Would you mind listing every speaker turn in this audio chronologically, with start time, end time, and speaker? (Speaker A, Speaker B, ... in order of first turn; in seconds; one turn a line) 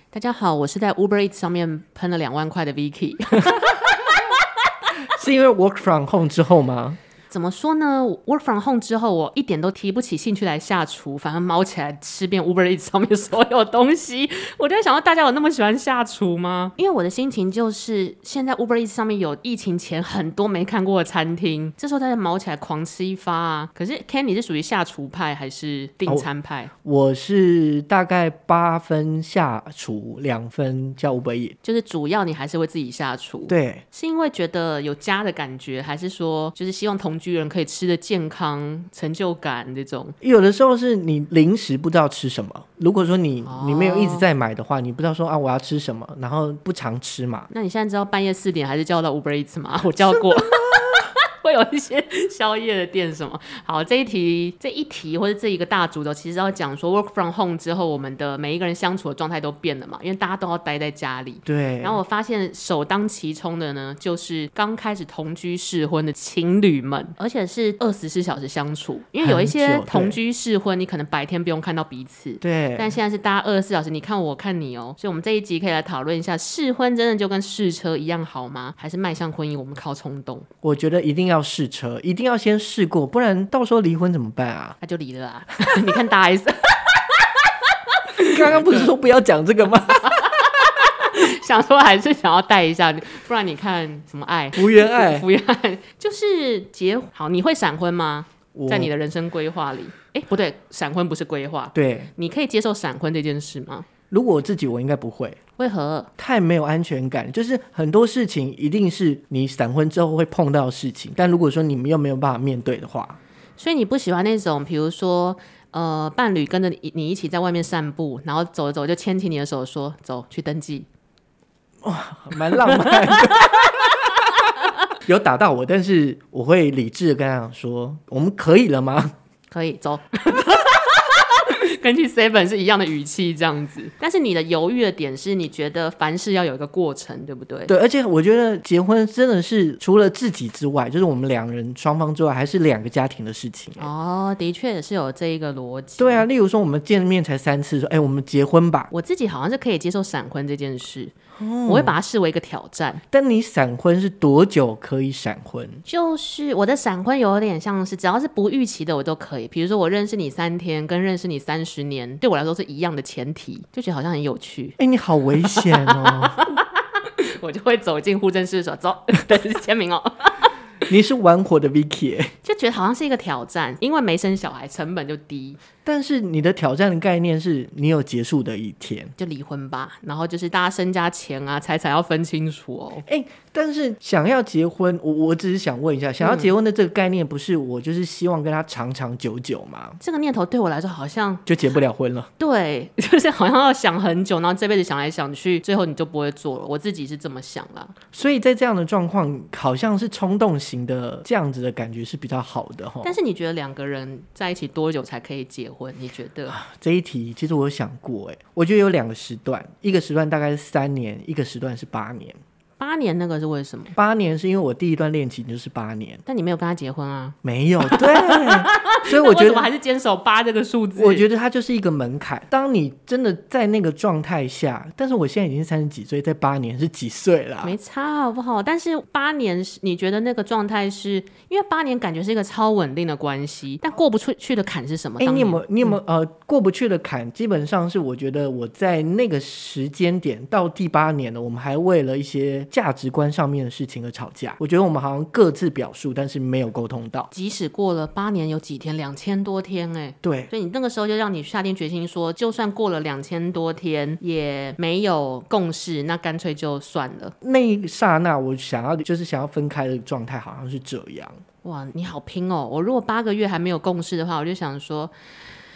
Speaker A: 0.1-4.4
Speaker B: 5.0-7.0
Speaker A: 7.3-26.7
Speaker B: 26.8-31.6
Speaker A: 31.6-40.1
Speaker B: 33.5-33.8
Speaker B: 40.2-47.5
Speaker A: 43.4-44.3
Speaker A: 47.5-80.5
Speaker B: 50.2-50.8
Speaker B: 61.5-62.0
Speaker B: 69.2-70.2
Speaker B: 72.4-73.0
Speaker B: 80.6-84.8
Speaker A: 84.8-88.9
Speaker B: 88.2-90.1
Speaker A: 90.0-103.9
Speaker B: 94.5-95.3
Speaker B: 98.5-98.9
Speaker B: 101.7-102.1
Speaker B: 104.1-105.4
Speaker A: 105.6-106.1
Speaker B: 106.2-113.2
Speaker A: 113.6-120.9
Speaker B: 121.8-124.0
Speaker A: 122.5-124.7
Speaker B: 125.0-129.1
Speaker A: 129.5-137.7
Speaker B: 137.7-143.9
Speaker A: 143.8-146.2
Speaker B: 146.0-148.9
Speaker A: 148.9-151.1
Speaker B: 151.3-151.9
Speaker A: 151.7-153.0
Speaker B: 153.1-155.8
Speaker A: 155.8-164.8
Speaker B: 164.8-166.4
Speaker A: 165.4-170.5
Speaker B: 170.9-172.3
Speaker A: 172.4-175.6
Speaker B: 175.8-179.1
Speaker A: 179.2-183.0
Speaker B: 183.0-190.0
Speaker A: 186.2-186.5
Speaker A: 190.0-191.4
Speaker B: 191.4-192.3
Speaker A: 192.4-197.9
Speaker B: 198.1-203.2
Speaker A: 203.0-206.6
Speaker B: 206.5-212.4
Speaker A: 212.8-213.9
Speaker B: 213.9-216.2
Speaker A: 216.2-221.2
Speaker B: 217.4-219.7
Speaker B: 220.9-227.8
Speaker A: 227.6-236.0
Speaker B: 235.2-247.3
Speaker A: 247.3-257.3
Speaker B: 250.2-250.5
Speaker B: 257.4-261.4
Speaker A: 261.6-265.1